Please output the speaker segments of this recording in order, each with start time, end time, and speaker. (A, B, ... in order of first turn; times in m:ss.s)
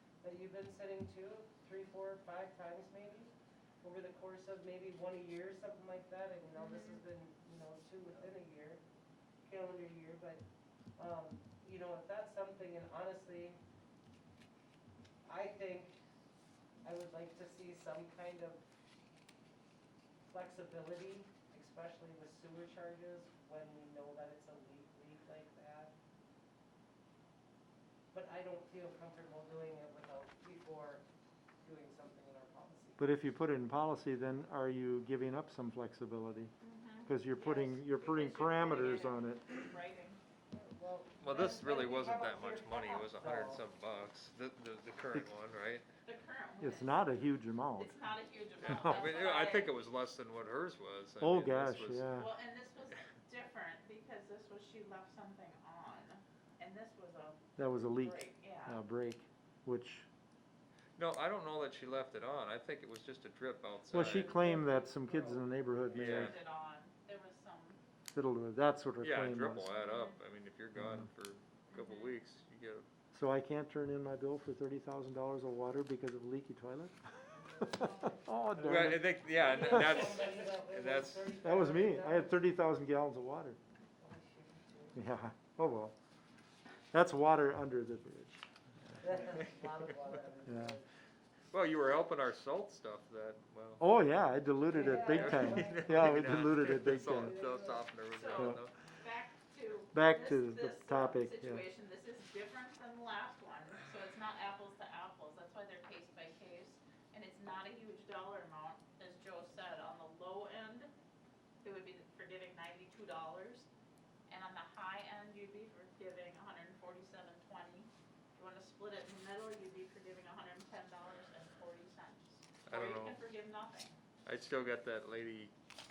0:00.2-0:08.8 A
0:06.6-0:07.0 B
0:09.4-0:10.4 A
0:11.0-0:13.6 A
0:15.2-0:16.0 A
0:16.8-0:18.6 A
0:20.3-0:25.9 A
0:28.1-0:31.0 A
0:31.6-0:33.0 A
0:33.0-0:36.5 C
0:36.6-0:40.2 B
0:37.0-0:39.5 C
0:40.5-0:43.6 A
0:41.2-0:45.9 D
0:46.0-0:47.1 B
0:46.6-0:48.0 C
0:47.8-0:49.7 B
0:48.6-0:52.1 D
0:48.6-0:49.0 C
0:51.2-0:52.3 C
0:52.1-0:58.8 B
0:57.6-1:00.1 C
1:01.0-1:04.4 D
1:03.9-1:06.3 C
1:04.0-1:06.1 A
1:05.9-1:06.4 D
1:06.0-1:07.8 B
1:08.1-1:09.7 C
1:09.0-1:12.9 D
1:09.7-1:10.2 B
1:10.8-1:11.1 C
1:11.7-1:12.2 B
1:13.1-1:17.0 C
1:17.3-1:18.1 A
1:17.6-1:19.9 C
1:17.8-1:18.2 B
1:18.6-1:21.4 D
1:19.3-1:22.4 A
1:21.4-1:23.6 C
1:24.0-1:25.0 A
1:25.0-1:26.0 C
1:26.9-1:28.4 C
1:29.0-1:30.9 A
1:30.4-1:30.8 C
1:31.5-1:33.8 D
1:33.8-1:37.4 C
1:34.7-1:37.9 A
1:34.8-1:38.7 D
1:38.1-1:50.9 B
1:38.4-1:38.6 C
1:39.9-1:41.6 C
1:51.6-1:53.7 B
1:54.3-2:04.0 B
2:02.7-2:03.2 D
2:04.2-2:05.5 D